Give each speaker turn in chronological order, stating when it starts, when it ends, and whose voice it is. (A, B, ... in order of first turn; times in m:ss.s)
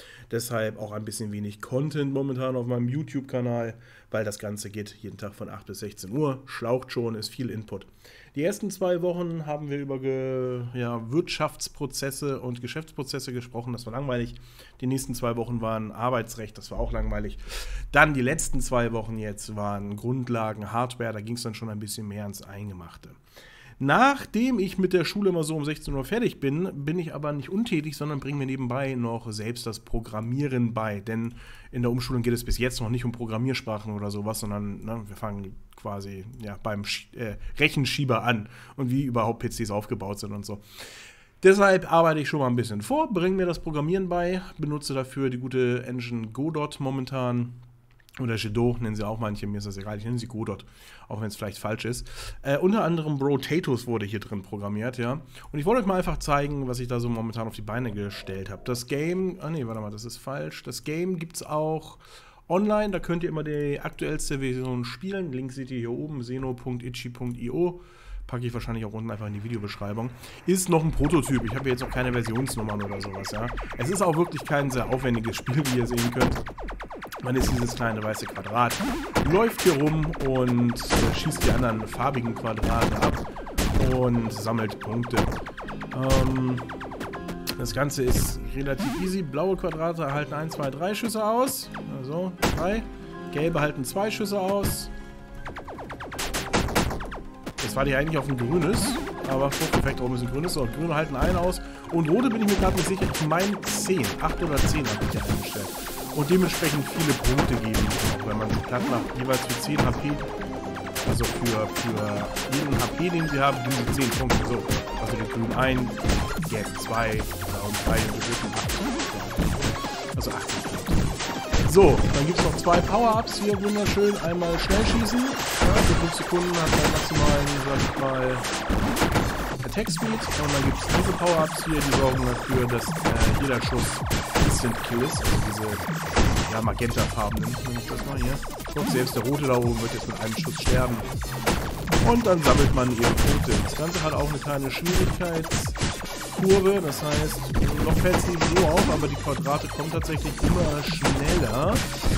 0:00.3-0:23.2 A
0:23.8-0:40.6 A
0:41.4-0:47.6 A
0:48.2-1:16.4 A
1:17.2-1:25.4 A
1:25.9-1:26.7 A
1:27.6-1:34.9 A
1:37.6-1:50.3 A
1:51.0-2:08.5 A
2:09.6-2:21.1 A
2:22.0-2:25.8 A
2:26.3-2:31.9 A